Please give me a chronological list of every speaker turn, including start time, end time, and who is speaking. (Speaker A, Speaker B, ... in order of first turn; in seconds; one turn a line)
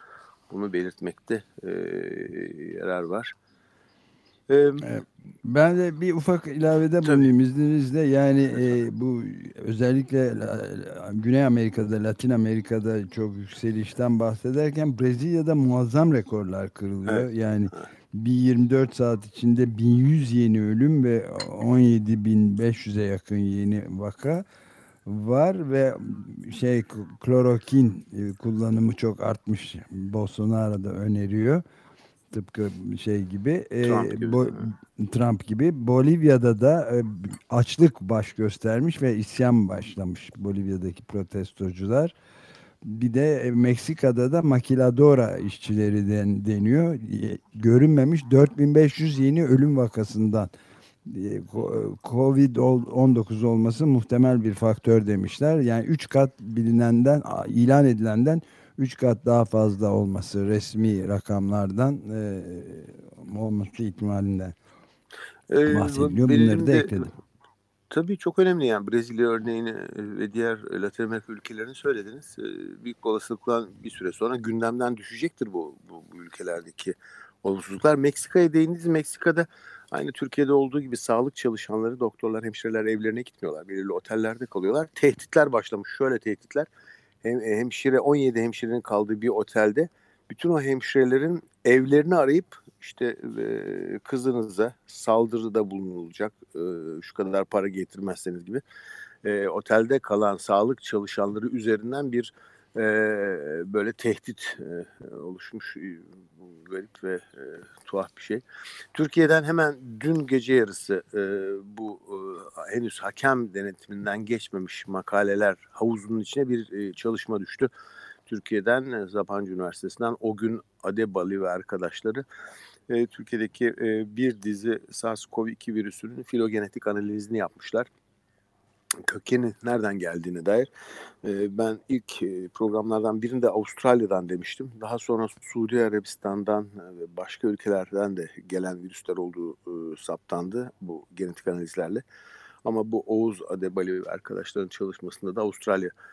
Speaker A: 0.5-3.3
Speaker A: 4.5-4.9
Speaker B: 4.8-24.4
Speaker A: 7.0-7.3
Speaker A: 17.0-17.9
Speaker B: 25.1-31.6
Speaker B: 32.3-42.1
Speaker A: 33.8-34.7
Speaker B: 42.8-50.5
Speaker B: 51.1-64.5
Speaker A: 65.5-67.1
Speaker B: 65.7-67.1
Speaker A: 67.9-86.7
Speaker A: 87.2-98.6
Speaker A: 99.2-108.4
Speaker A: 108.9-117.7
Speaker A: 118.3-122.2
Speaker A: 122.9-127.9
Speaker A: 129.0-130.7
Speaker A: 131.2-142.0
Speaker A: 142.6-145.9